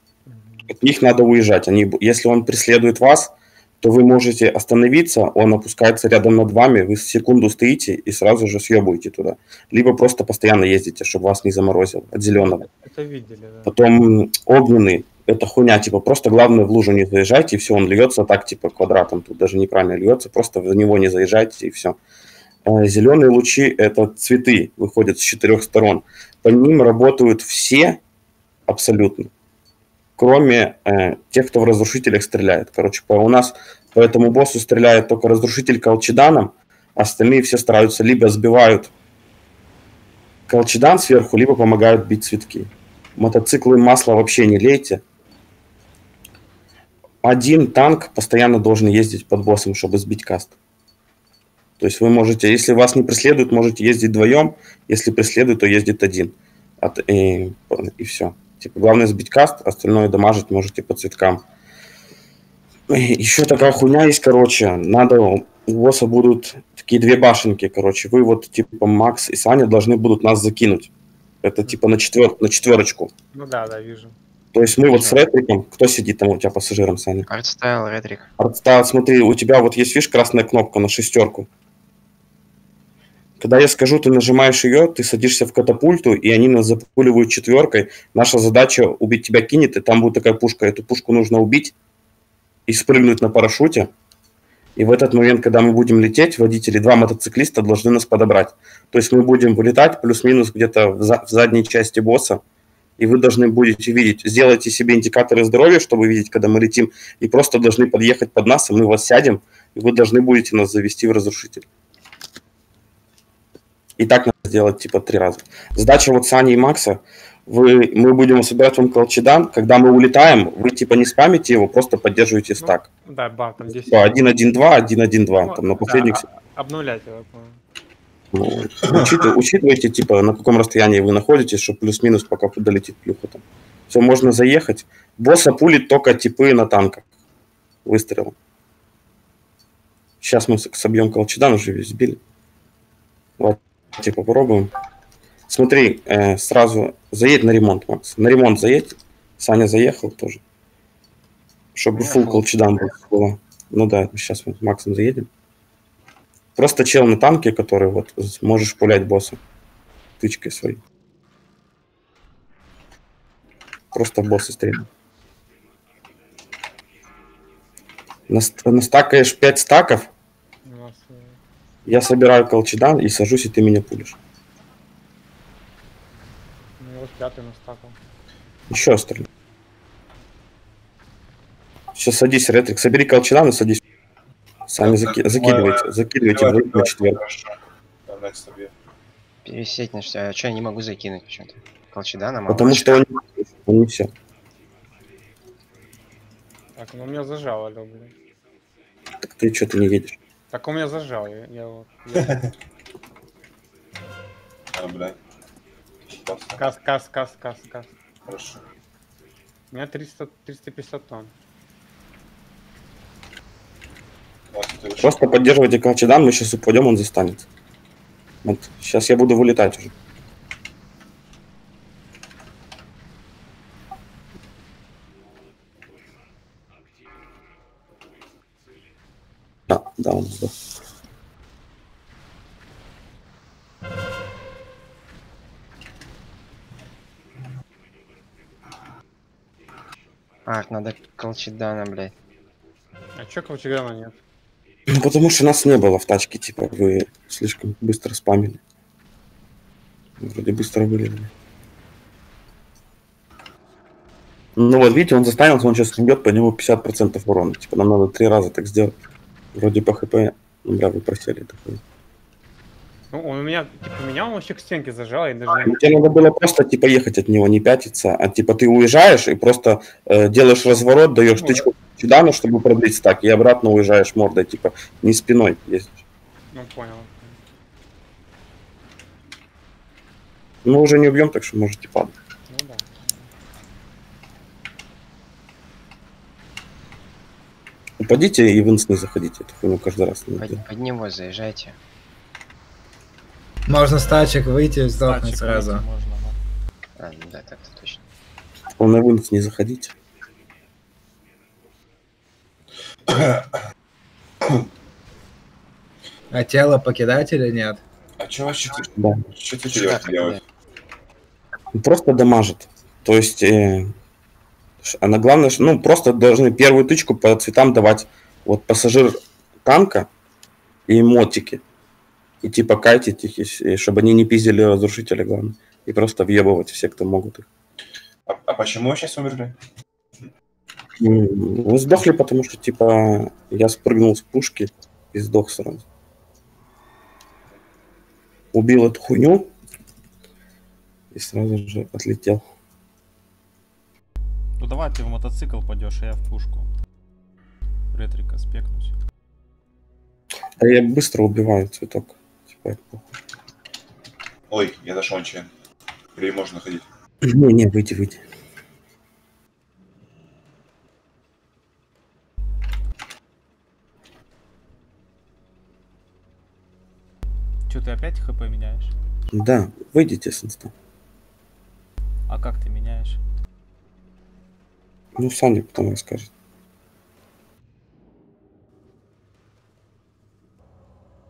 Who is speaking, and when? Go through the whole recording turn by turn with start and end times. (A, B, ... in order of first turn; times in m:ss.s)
0:00.3-0:00.7 A
0:00.7-0:12.7 B
0:12.7-0:13.7 A
0:13.6-0:22.0 B
0:22.6-0:28.0 B
0:28.7-0:29.3 B
0:30.2-0:38.9 B
0:40.5-0:45.0 B
0:47.2-0:50.5 B
0:51.8-1:01.4 B
1:02.9-1:10.9 B
1:11.4-1:13.1 B
1:13.3-1:14.2 A
1:14.5-1:17.3 B
1:14.9-1:15.2 C
1:17.3-1:18.3 C
1:18.4-1:21.5 B
1:23.4-1:31.7 B
1:32.7-1:33.9 B
1:34.8-1:42.4 B
1:43.0-1:51.6 B
1:54.0-2:02.8 B
2:02.6-2:04.3 A
2:03.6-2:06.2 B
2:05.4-2:07.6 A
2:08.3-2:17.0 B
2:08.8-2:09.1 D
2:17.8-2:18.3 B
2:20.2-2:22.2 B
2:23.4-2:24.7 B
2:25.5-2:30.4 B
2:31.7-2:35.3 B
2:32.0-2:32.5 C
2:36.6-2:39.4 B
2:40.2-2:40.8 B
2:43.9-2:44.9 B
2:48.3-2:50.1 B
2:50.6-2:51.4 A
2:51.8-2:54.2 B
2:56.8-2:58.0 A
2:58.7-2:59.3 B
3:01.9-3:03.8 B
3:04.7-3:07.2 B
3:04.8-3:08.7 D
3:09.4-3:13.0 C
3:12.5-3:14.1 B
3:16.8-3:18.1 A
3:19.2-3:20.2 B
3:20.5-3:22.5 A
3:22.2-3:22.5 D
3:24.7-3:25.2 D
3:26.1-3:26.6 D
3:26.6-3:27.9 A
3:28.3-3:28.6 D
3:29.7-3:31.3 A
3:34.5-3:35.2 D
3:35.0-3:37.5 B
3:38.4-3:39.9 B
3:49.7-3:50.5 B
4:00.4-4:02.1 C
4:03.2-4:04.2 A
4:04.9-4:08.6 B
4:10.2-4:11.3 B
4:14.6-4:19.0 B
4:19.5-4:21.8 B
4:23.1-4:25.8 A
4:25.6-4:36.0 B
4:31.4-4:31.7 A
4:36.5-4:37.4 A
4:40.6-4:42.1 B
4:42.5-4:43.3 A
4:48.0-4:50.6 B
4:50.4-4:51.8 C
4:53.7-4:55.8 E
4:55.0-4:56.4 F
4:57.0-4:58.0 C
4:58.8-4:59.9 B
5:03.1-5:03.6 D
5:06.3-5:07.8 E
5:08.2-5:10.4 D
5:09.0-5:09.2 B
5:09.7-5:10.4 C
5:11.7-5:13.9 B
5:14.8-5:20.1 B
5:20.9-5:21.6 B
5:22.4-5:27.4 B
5:28.3-5:29.6 D
5:31.0-5:35.8 B
5:38.5-5:39.5 B
5:41.1-5:42.4 B
5:44.6-5:46.7 F
5:47.9-5:48.9 F
5:50.6-5:53.0 B
5:54.5-5:55.5 D
5:56.1-5:56.8 D
5:57.2-5:58.2 B
6:07.7-6:08.9 F
6:09.3-6:10.7 B
6:12.3-6:13.2 F
6:15.2-6:16.3 B